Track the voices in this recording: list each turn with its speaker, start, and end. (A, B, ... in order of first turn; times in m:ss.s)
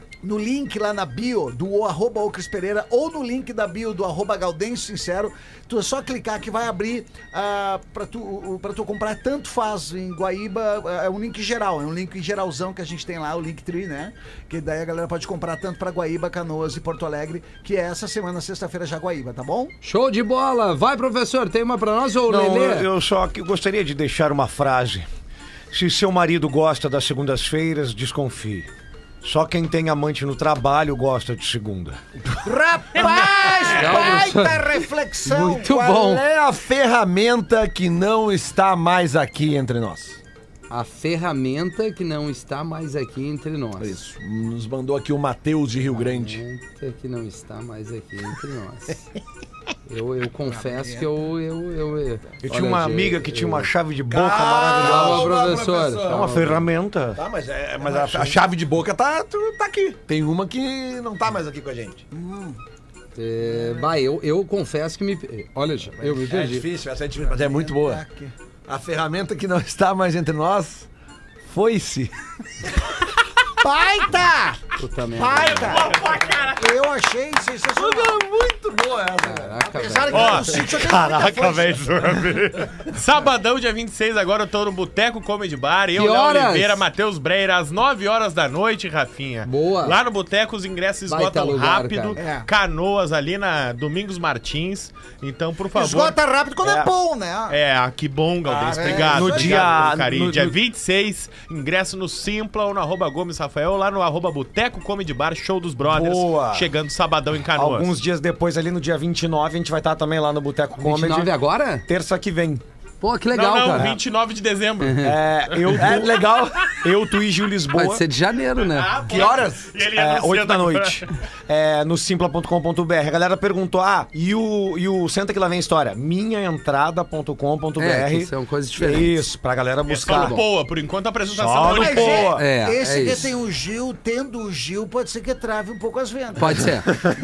0:00.2-0:19.7 A
0:19.8-0:22.9 B
0:22.3-0:25.0 C
0:25.7-0:28.7 C
0:29.2-0:32.0 C
0:32.4-0:36.0 A
0:33.7-0:34.6 B
0:35.2-0:36.2 B
0:35.9-0:40.2 D
0:40.7-0:43.9 B
0:43.8-0:46.4 D
0:45.9-0:49.0 B
0:49.9-0:53.7 B
0:50.4-0:51.1 A
0:52.4-0:55.3 C
0:54.1-0:56.6 D
0:54.8-0:56.6 B
0:56.1-0:57.2 C
0:57.1-1:02.0 D
0:57.8-0:58.4 C
1:02.1-1:02.6 A
1:03.2-1:06.6 B
1:03.4-1:03.9 A
1:06.0-1:08.0 D
1:07.2-1:08.3 A
1:08.7-1:10.9 D
1:11.4-1:12.1 D
1:13.6-1:14.6 A
1:14.8-1:15.8 B
1:15.1-1:18.2 A
1:15.3-1:16.8 E
1:17.7-1:20.3 D
1:19.2-1:20.5 B
1:19.7-1:21.9 A
1:20.1-1:36.2 E
1:21.0-1:21.2 C
1:26.0-1:26.8 B
1:29.4-1:30.0 B
1:31.1-1:32.2 B
1:32.2-1:32.5 A
1:35.7-1:37.6 A
1:36.6-1:36.9 C
1:37.5-1:47.9 E
1:38.5-1:40.6 C
1:38.7-1:39.8 A
1:45.9-1:46.7 C
1:47.5-1:51.3 C
1:50.8-1:51.8 B
1:51.8-1:52.6 C
1:53.0-1:53.9 B
1:53.3-1:56.1 E
1:54.8-1:55.2 B
1:55.0-1:58.0 C
1:55.8-1:56.5 D
1:57.7-1:59.0 B
1:58.6-2:01.0 E
1:59.1-1:59.6 D
1:59.2-2:10.4 C
2:07.8-2:09.3 B
2:09.9-2:12.4 E
2:10.1-2:10.4 B
2:11.3-2:12.4 C
2:11.6-2:16.7 A
2:12.3-2:13.3 B
2:16.4-2:16.9 B